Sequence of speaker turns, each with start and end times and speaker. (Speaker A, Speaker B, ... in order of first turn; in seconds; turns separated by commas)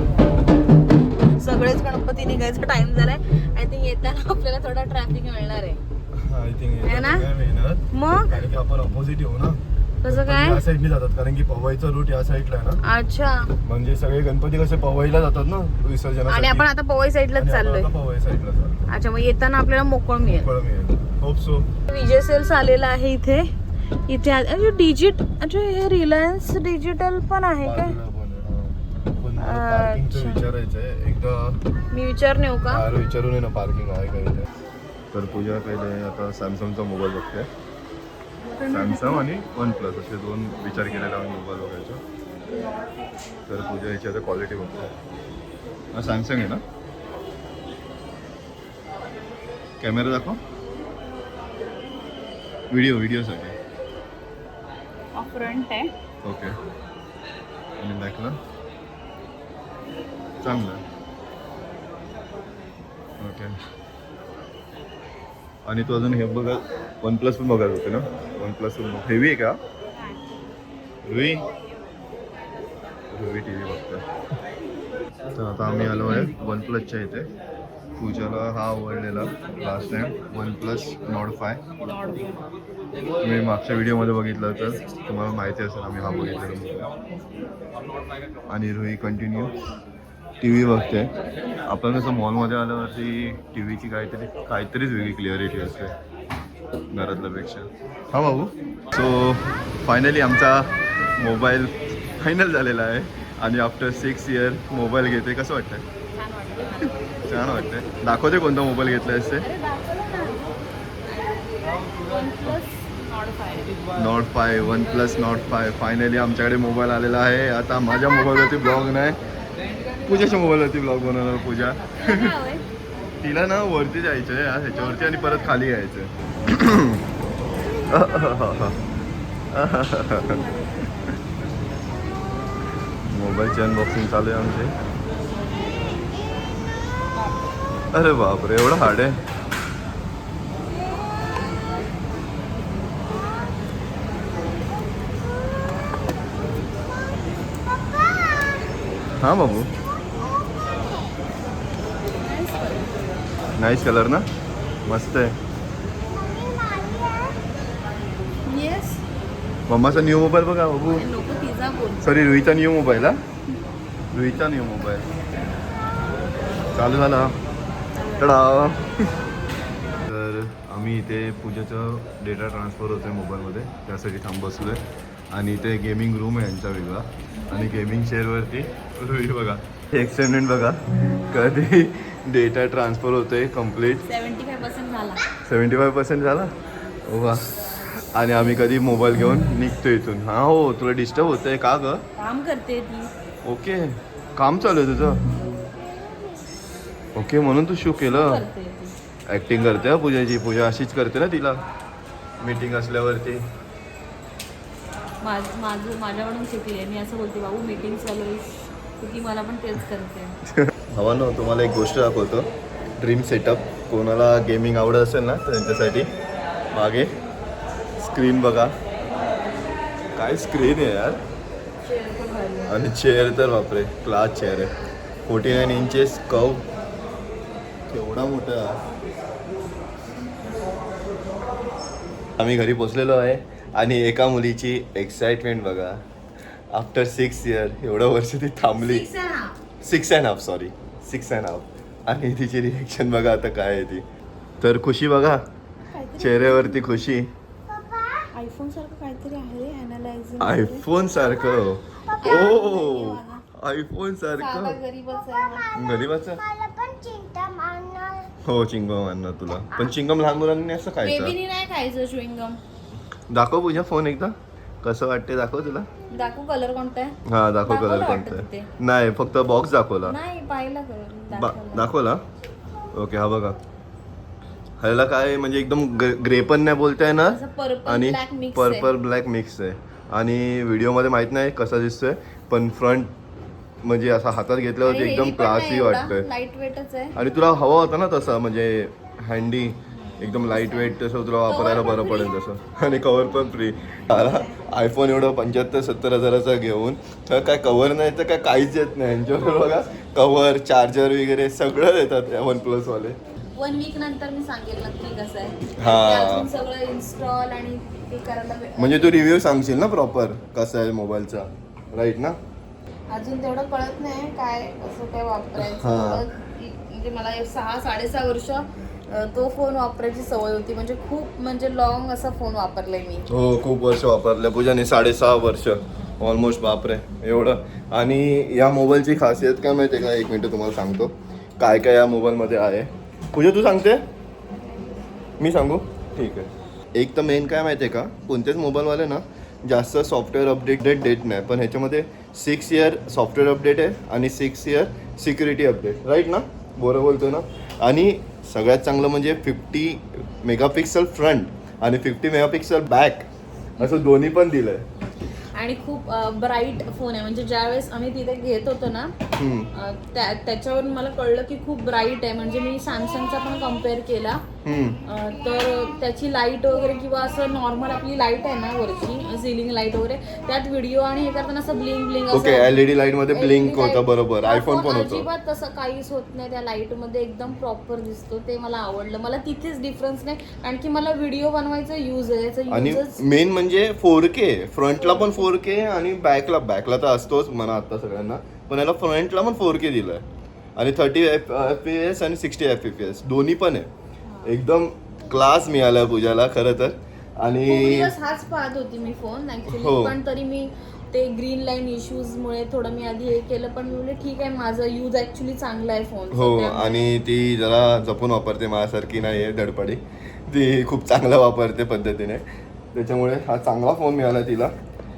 Speaker A: 1.3-5.8, Speaker B: 6.1-12.8, Speaker A: 6.8-7.3, Speaker A: 7.9-8.4, Speaker A: 10.0-10.6, Speaker A: 12.8-13.5, Speaker B: 13.6-16.7, Speaker A: 16.3-17.9, Speaker B: 17.4-18.8, Speaker A: 18.9-20.5, Speaker B: 20.2-21.7, Speaker A: 21.9-23.5, Speaker A: 24.1-28.0, Speaker B: 27.6-31.6, Speaker A: 29.4-30.5, Speaker A: 31.9-32.8, Speaker B: 32.7-34.5, Speaker B: 35.1-37.5, Speaker A: 38.4-39.3, Speaker B: 38.7-42.0, Speaker B: 43.5-44.9, Speaker B: 45.9-46.6, Speaker B: 49.8-50.4, Speaker B: 52.7-53.5, Speaker A: 55.1-55.9, Speaker B: 56.2-56.5, Speaker B: 57.8-58.4, Speaker B: 60.4-60.8, Speaker B: 63.2-63.5, Speaker B: 65.7-69.6, Speaker A: 70.0-70.3, Speaker B: 71.0-71.5, Speaker B: 73.1-74.0, Speaker B: 75.3-77.3, Speaker B: 78.0-81.6, Speaker A: 81.8-82.3, Speaker B: 83.2-86.9, Speaker B: 88.5-89.6, Speaker B: 90.4-91.1, Speaker B: 91.7-95.9, Speaker B: 96.9-105.8, Speaker A: 106.2-107.7, Speaker B: 107.3-109.5, Speaker A: 109.3-113.8, Speaker B: 114.0-119.2, Speaker A: 117.9-118.9, Speaker B: 120.1-122.4, Speaker A: 122.0-122.6, Speaker B: 123.2-127.0, Speaker A: 124.7-125.6, Speaker B: 127.9-128.8, Speaker B: 129.5-130.9, Speaker A: 130.2-131.1, Speaker B: 133.1-134.7, Speaker C: 135.6-137.1, Speaker B: 137.9-139.2, Speaker C: 141.0-141.7, Speaker C: 143.1-143.5, Speaker C: 144.3-148.8, Speaker B: 149.2-149.7, Speaker C: 149.5-151.3, Speaker A: 152.1-153.3, Speaker B: 153.6-154.3, Speaker B: 154.9-155.4, Speaker C: 156.1-157.5, Speaker A: 158.4-159.0, Speaker B: 159.7-161.1, Speaker A: 160.9-162.2, Speaker B: 162.0-163.2, Speaker B: 164.1-165.1, Speaker B: 166.7-167.4, Speaker A: 167.9-168.4, Speaker B: 168.2-169.2, Speaker B: 170.0-184.0, Speaker A: 177.3-177.9, Speaker A: 184.0-185.3, Speaker B: 185.4-186.5, Speaker B: 187.1-192.0, Speaker A: 192.2-193.1, Speaker B: 193.4-195.2, Speaker C: 195.8-196.4, Speaker B: 197.2-198.4, Speaker A: 198.1-198.9, Speaker B: 199.3-201.6, Speaker B: 202.4-203.4, Speaker A: 205.2-208.5, Speaker A: 209.0-210.4, Speaker B: 210.7-216.1, Speaker B: 216.7-217.1, Speaker B: 218.0-218.7, Speaker B: 220.2-221.2, Speaker A: 221.8-222.8, Speaker B: 222.7-224.7, Speaker B: 225.3-226.7, Speaker B: 227.9-228.8, Speaker B: 232.4-236.0, Speaker B: 236.7-239.1, Speaker A: 238.7-239.6, Speaker B: 239.8-244.0, Speaker B: 244.6-245.4, Speaker A: 245.8-247.0, Speaker B: 246.2-247.3, Speaker C: 247.7-248.3, Speaker A: 248.3-250.9, Speaker B: 250.4-254.8, Speaker C: 251.2-252.6, Speaker A: 252.2-253.4, Speaker A: 254.4-255.7, Speaker C: 255.1-258.3, Speaker B: 255.8-256.4, Speaker B: 258.4-261.4, Speaker A: 261.0-262.6, Speaker B: 263.3-265.9, Speaker A: 266.1-268.7, Speaker B: 267.3-270.2, Speaker A: 270.1-271.9, Speaker B: 271.3-272.2, Speaker B: 272.9-273.6, Speaker B: 274.8-283.1, Speaker A: 277.2-278.9, Speaker B: 283.8-286.3, Speaker A: 284.9-287.2, Speaker B: 287.1-303.2, Speaker A: 289.9-292.3, Speaker A: 294.1-294.6, Speaker A: 303.5-309.2, Speaker B: 305.8-306.5, Speaker B: 308.8-312.4, Speaker A: 313.1-323.3, Speaker B: 315.6-316.3, Speaker B: 323.3-334.0, Speaker B: 335.4-354.9, Speaker A: 355.0-359.1, Speaker B: 359.4-359.7, Speaker A: 359.7-364.4, Speaker B: 364.6-365.0, Speaker A: 365.1-372.8, Speaker B: 372.3-375.3, Speaker A: 373.3-383.2, Speaker B: 382.7-390.2, Speaker A: 385.0-385.5, Speaker B: 390.8-393.9, Speaker A: 394.3-394.6, Speaker B: 394.4-398.1, Speaker A: 397.7-407.1, Speaker B: 399.7-400.2, Speaker B: 406.3-414.7